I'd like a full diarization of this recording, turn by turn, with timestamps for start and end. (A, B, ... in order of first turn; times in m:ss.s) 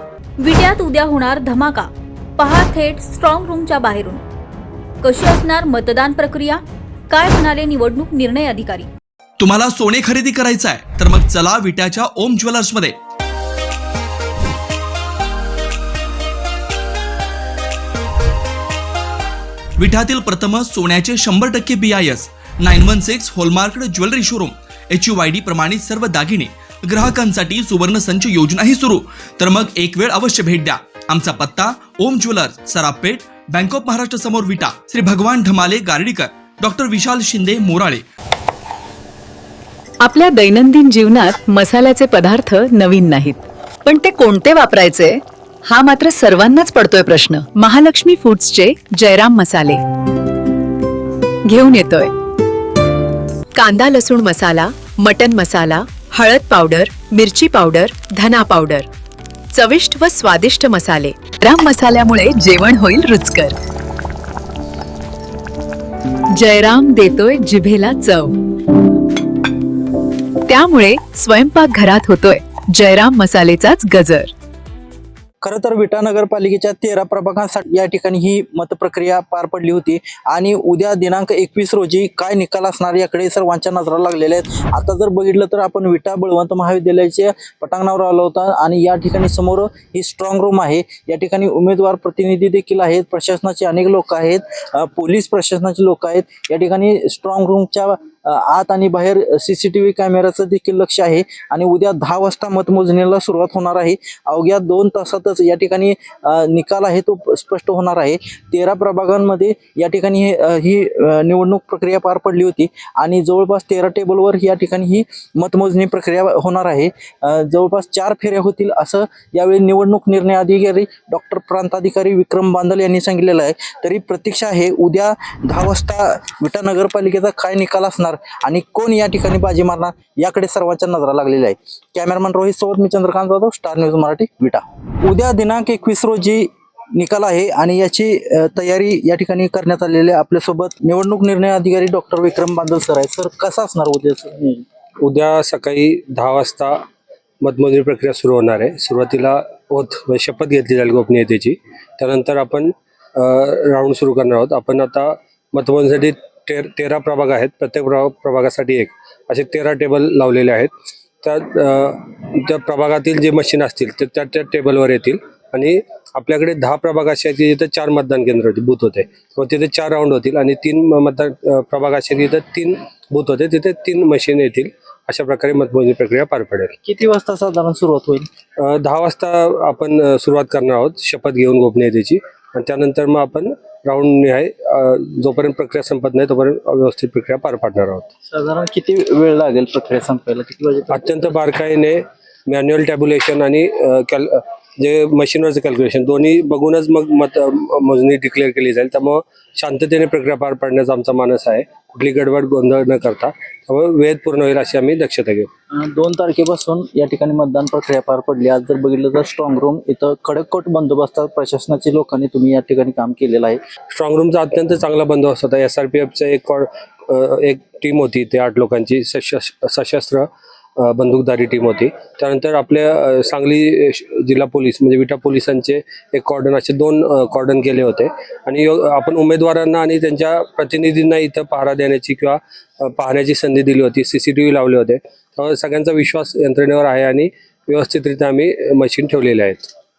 0:00.4-0:04.2 A
0:05.0-0:08.9 A
0:09.4-0:13.0 B
0:19.8-0:38.0 B
0:40.0-0:49.8 C
0:51.5-0:52.1 C
0:53.6-0:58.9 C
0:59.5-1:03.6 C
1:06.3-1:08.4 C
1:10.5-1:14.3 C
1:15.4-2:24.6 D
2:25.0-2:26.8 E
2:27.4-2:40.7 E
2:41.2-2:56.7 E
2:56.8-2:58.3 D
2:58.6-3:08.1 E
3:08.3-3:11.4 D
3:10.9-3:25.5 E
3:25.8-3:33.6 D
3:33.9-3:40.3 E
3:40.8-3:59.7 E